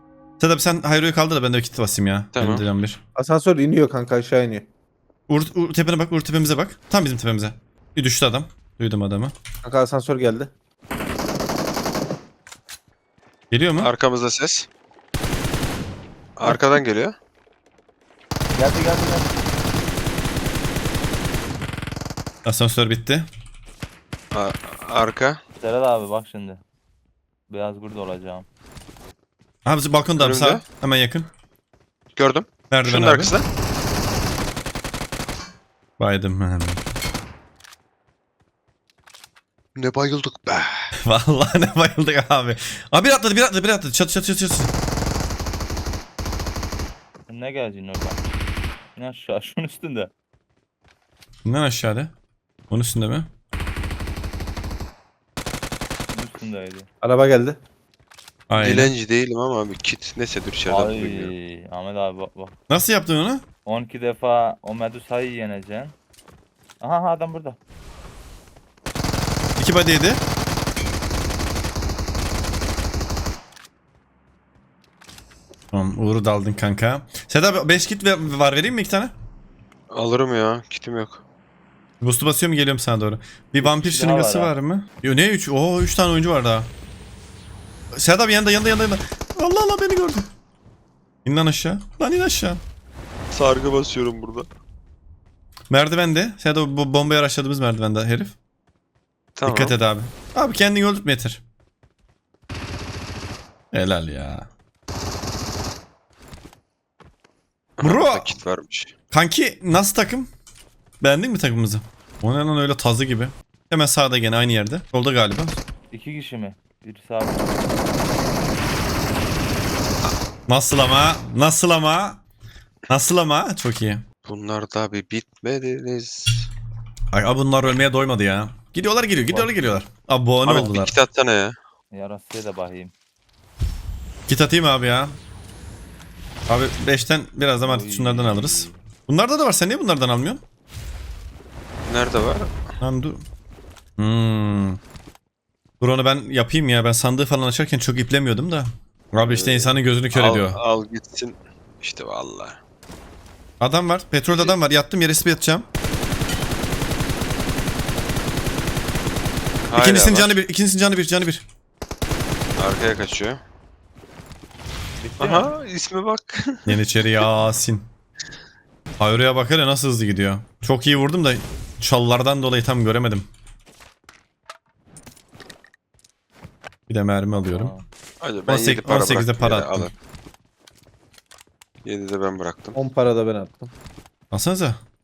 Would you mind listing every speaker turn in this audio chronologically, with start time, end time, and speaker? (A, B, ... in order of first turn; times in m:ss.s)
0:00.4-0:03.0 A
0:02.3-0:02.6 B
0:03.2-0:04.7 C
0:05.3-0:09.4 A
0:09.6-0:10.5 C
0:13.5-0:13.9 A
0:13.8-0:14.7 B
0:16.4-0:17.2 B
0:18.6-0:19.4 D
0:22.4-0:23.3 A
0:24.3-0:25.4 B
0:25.6-0:26.6 D
0:27.5-0:28.5 D
0:29.6-0:31.3 A
0:30.2-0:30.6 B
0:32.2-0:33.5 B
0:32.7-0:33.3 A
0:36.0-0:36.8 A
0:39.8-0:40.9 B
0:41.0-0:44.7 A
0:47.3-0:48.2 D
0:49.0-0:50.1 D
0:51.5-0:52.1 A
0:52.7-0:53.3 A
0:56.1-0:56.9 D
0:57.0-0:57.6 C
0:58.5-0:58.9 A
0:58.6-1:01.3 B
1:00.7-1:02.6 D
1:02.7-1:03.4 A
1:03.7-1:05.9 D
1:06.8-1:07.6 D
1:09.6-1:10.2 A
1:15.7-1:19.1 A
1:19.9-1:21.2 B
1:22.0-1:26.7 A
1:23.6-1:24.5 D
1:27.9-1:30.3 A
1:31.2-1:32.6 A
1:33.3-1:34.5 B
1:35.7-1:38.4 A
1:39.4-1:39.8 B
1:39.5-1:41.4 A
1:43.7-1:44.5 A
1:47.8-1:48.9 B
1:47.8-1:48.3 A
1:49.1-1:50.3 A
1:51.0-1:55.6 A
1:55.9-1:57.6 D
2:00.5-2:02.2 A
2:02.9-2:04.0 A
2:04.3-2:06.5 B
2:07.1-2:11.0 A
2:09.3-2:09.7 D
2:10.4-2:11.6 B
2:11.9-2:12.9 D
2:14.3-2:15.2 A
2:16.5-2:20.4 A
2:17.6-2:18.8 D
2:21.9-2:22.6 B
2:22.8-2:23.2 A
2:24.0-2:24.8 A
2:25.8-2:30.6 A
2:29.2-2:32.6 B
2:33.6-2:35.7 A
2:39.7-2:40.4 B
2:39.7-2:41.4 A
2:42.6-2:43.4 B
2:45.0-2:45.5 D
2:45.2-2:46.8 B
2:46.7-2:47.9 A
2:49.0-2:53.3 A
2:56.9-2:57.7 A
2:57.4-2:57.8 D
2:58.2-2:59.9 B
2:58.5-2:59.9 A
3:01.8-3:02.8 B
3:02.8-3:03.7 C
3:04.3-3:04.8 A